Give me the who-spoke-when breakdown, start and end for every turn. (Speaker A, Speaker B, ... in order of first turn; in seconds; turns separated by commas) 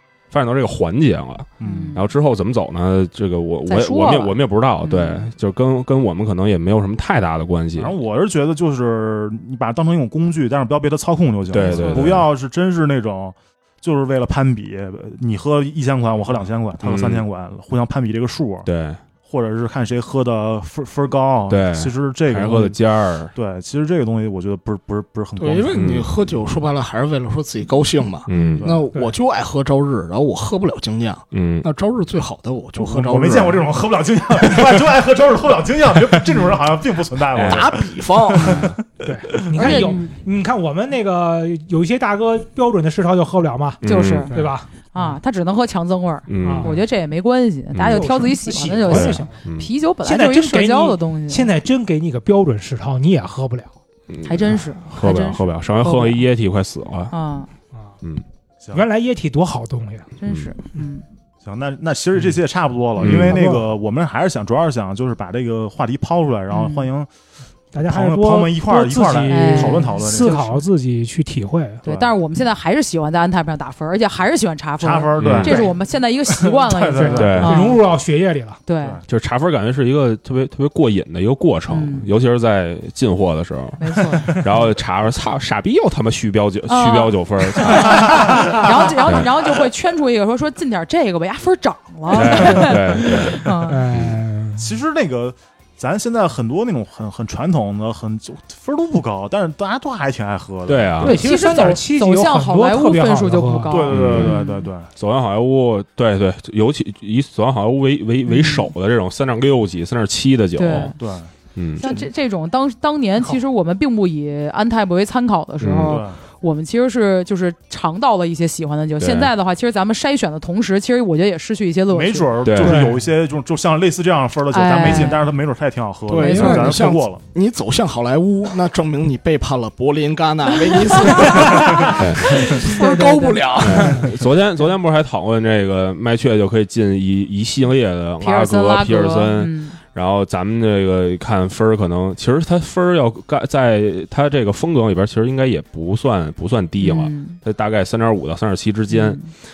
Speaker A: 0.3-8.0, Speaker B: 1.6-1.9, Speaker C: 1.6-2.1, Speaker C: 3.7-5.3, Speaker B: 7.8-18.7, Speaker A: 11.5-12.3, Speaker C: 11.6-12.1, Speaker A: 16.8-17.2, Speaker A: 18.6-19.0, Speaker B: 19.2-22.8, Speaker A: 21.5-23.3, Speaker B: 23.3-25.8, Speaker D: 25.4-33.7, Speaker A: 25.7-26.1, Speaker A: 28.3-28.7, Speaker C: 28.3-28.6, Speaker A: 31.3-31.7, Speaker B: 32.8-39.9, Speaker A: 37.3-37.7, Speaker D: 37.4-38.6, Speaker C: 38.5-38.7, Speaker E: 39.0-45.2, Speaker C: 39.6-40.1, Speaker A: 43.8-44.5, Speaker C: 43.9-44.3, Speaker C: 44.9-51.5, Speaker A: 46.3-46.8, Speaker E: 46.4-46.8, Speaker A: 47.7-48.1, Speaker E: 47.9-49.4, Speaker A: 48.9-49.7, Speaker E: 50.0-53.7, Speaker A: 54.1-57.1, Speaker C: 54.2-56.2, Speaker C: 57.1-57.5, Speaker E: 58.7-60.1, Speaker C: 60.2-61.0, Speaker A: 60.3-60.5, Speaker B: 61.4-67.1, Speaker A: 63.0-63.4, Speaker E: 63.0-63.7, Speaker C: 66.5-66.9, Speaker E: 67.7-71.8, Speaker B: 67.8-70.4, Speaker C: 69.3-70.6, Speaker C: 71.8-77.8, Speaker B: 71.8-72.1, Speaker B: 74.8-77.6, Speaker A: 75.2-75.5, Speaker E: 75.4-75.7, Speaker E: 77.0-78.6, Speaker A: 77.2-77.6, Speaker C: 78.7-79.0, Speaker A: 79.1-88.5, Speaker C: 81.7-82.1, Speaker C: 83.8-84.4, Speaker C: 86.7-93.8, Speaker E: 87.7-88.7, Speaker A: 92.1-94.2, Speaker E: 92.2-93.1, Speaker E: 93.6-94.7, Speaker B: 94.6-101.1, Speaker A: 100.7-101.2, Speaker E: 101.0-103.9, Speaker C: 101.0-104.7, Speaker B: 103.7-104.9, Speaker A: 103.9-104.3, Speaker A: 105.0-110.9, Speaker C: 108.3-108.7, Speaker C: 110.6-111.0, Speaker B: 111.0-111.3, Speaker A: 111.6-111.9, Speaker C: 111.8-122.3, Speaker A: 115.6-116.0, Speaker B: 115.8-116.2, Speaker A: 119.0-119.3, Speaker B: 121.9-127.2, Speaker A: 122.5-122.8, Speaker E: 122.6-123.0, Speaker C: 124.5-125.2, Speaker D: 126.1-134.1, Speaker C: 126.2-126.8, Speaker C: 130.9-133.8, Speaker A: 131.9-132.4, Speaker A: 133.6-149.3, Speaker C: 138.2-139.8, Speaker C: 146.8-147.4, Speaker C: 148.9-149.3